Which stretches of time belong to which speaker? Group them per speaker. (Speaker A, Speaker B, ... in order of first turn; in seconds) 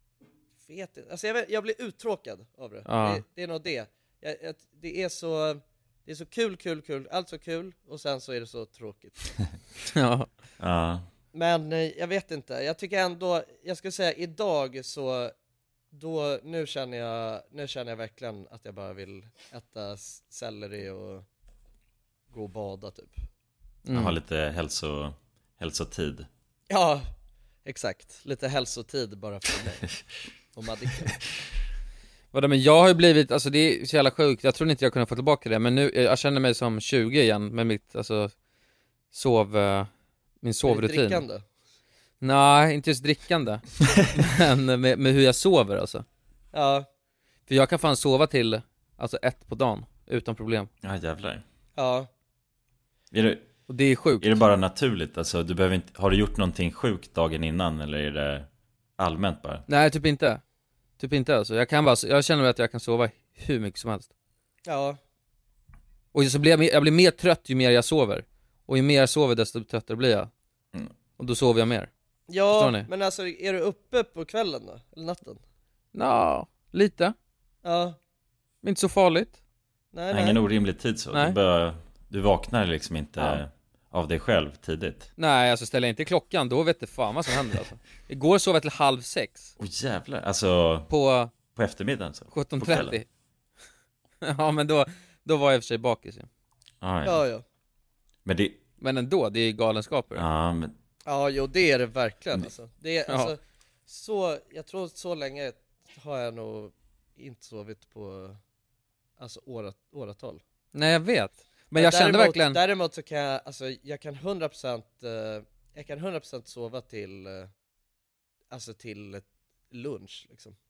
Speaker A: 0.7-9.2, 11.3-15.3, 15.9-21.2, 22.3-23.2, 26.7-27.1, 27.6-29.9, 30.5-31.1, 40.6-41.4, 46.5-46.9, 51.8-52.1, 64.7-65.0, 72.3-75.4, 77.6-78.0, 79.9-80.4, 97.0-97.4, 101.1-108.4, 109.2-110.4, 111.7-117.5, 118.5-120.6
Speaker B: 2.9-3.2, 9.9-10.3, 23.9-24.2, 32.3-38.3, 39.1-39.9, 40.4-41.2, 42.2-43.6, 44.1-46.0, 47.5-50.7, 53.7-54.4, 59.7-60.4, 61.0-64.1, 66.1-70.3, 71.2-71.9, 72.5-72.9, 75.9-77.2, 78.6-79.4, 85.2-89.5, 90.9-91.3, 92.3-93.0, 94.2-96.3, 98.8-100.2, 103.1-103.3, 110.7-112.6
Speaker C: 10.6-11.1, 23.9-26.3, 50.8-51.4, 53.1-53.5, 54.2-58.5, 59.0-59.6, 80.1-85.1, 89.6-90.9, 91.5-93.0, 96.8-97.2, 98.3-98.6, 100.2-100.7